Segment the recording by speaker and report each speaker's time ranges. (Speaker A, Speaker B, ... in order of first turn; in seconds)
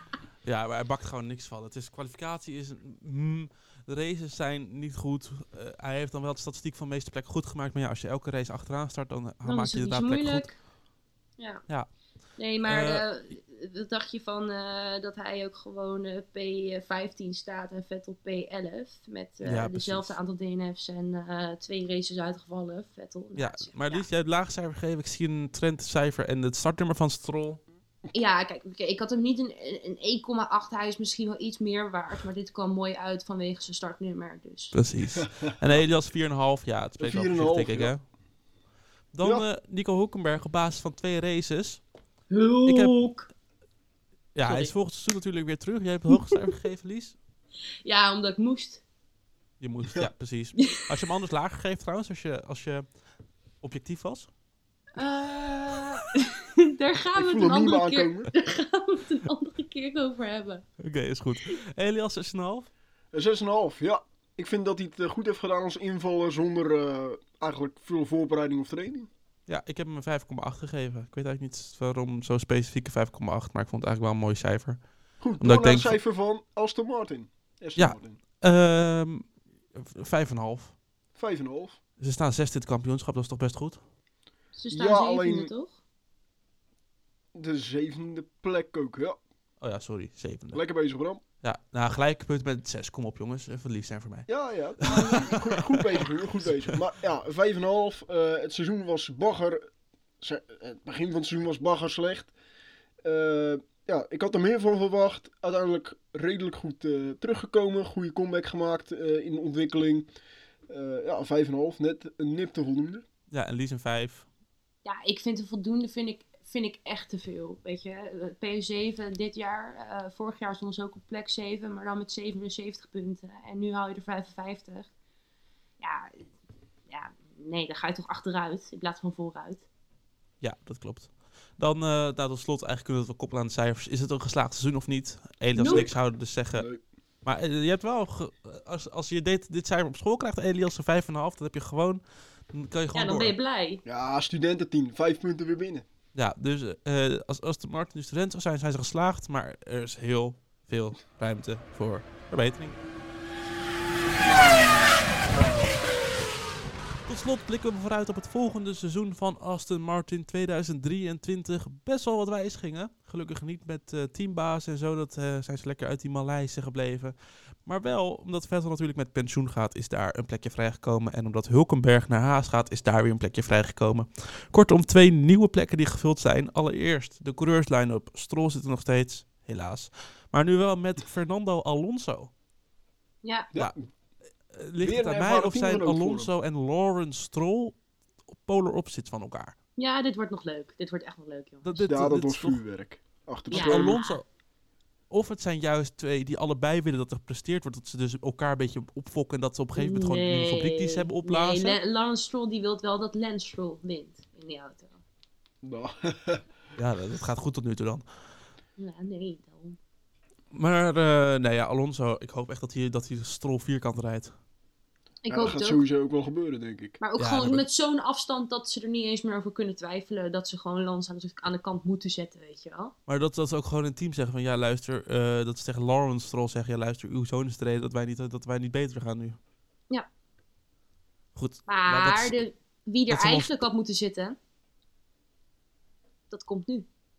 Speaker A: 0.5-10.5, 12.6-13.1, 19.4-20.1, 23.4-27.6, 34.7-38.0, 39.1-41.8, 42.6-43.0, 44.4-47.2, 49.6-52.9, 53.6-54.3, 60.8-62.7, 69.5-74.8, 75.3-76.0, 77.8-80.8, 82.0-83.8, 89.6-90.6, 91.4-94.3, 94.8-95.8, 113.3-114.3, 130.4-136.7, 137.2-143.3, 146.2-152.8, 157.1-182.3, 184.5-187.8, 188.3-189.6, 191.6-192.6, 193.5-194.2, 195.1-201.8, 206.8-208.1, 210.5-214.3, 217.2-217.6, 223.1-229.4, 231.3-232.4, 233.1-233.6
Speaker B: 9.4-10.6, 11.4-11.7, 12.4-24.1, 28.1-34.8, 42.3-43.3, 44.4-44.7, 47.8-48.8, 50.6-50.8, 55.0-60.6, 84.5-85.8, 94.8-95.4, 114.8-124.9, 125.8-126.3, 126.9-129.7, 135.6-135.9, 142.9-143.8, 183.2-183.5, 189.8-191.8, 193.5-194.2, 199.8-205.0, 208.8-209.8, 215.2-215.9, 217.0-222.9, 231.7-234.4, 236.3-236.9
Speaker C: 35.2-35.9, 37.0-37.9, 39.2-39.5, 57.2-58.3, 63.1-69.1, 75.2-78.2, 81.2-81.8, 84.7-85.5, 87.3-89.2, 90.5-91.2, 94.3-99.6, 100.2-102.3, 103.0-110.1, 110.7-113.0, 135.6-136.0, 136.6-136.8, 143.8-145.8, 154.4-154.6, 183.5-183.8, 184.8-186.3, 191.8-194.0, 205.6-206.4, 215.3-217.0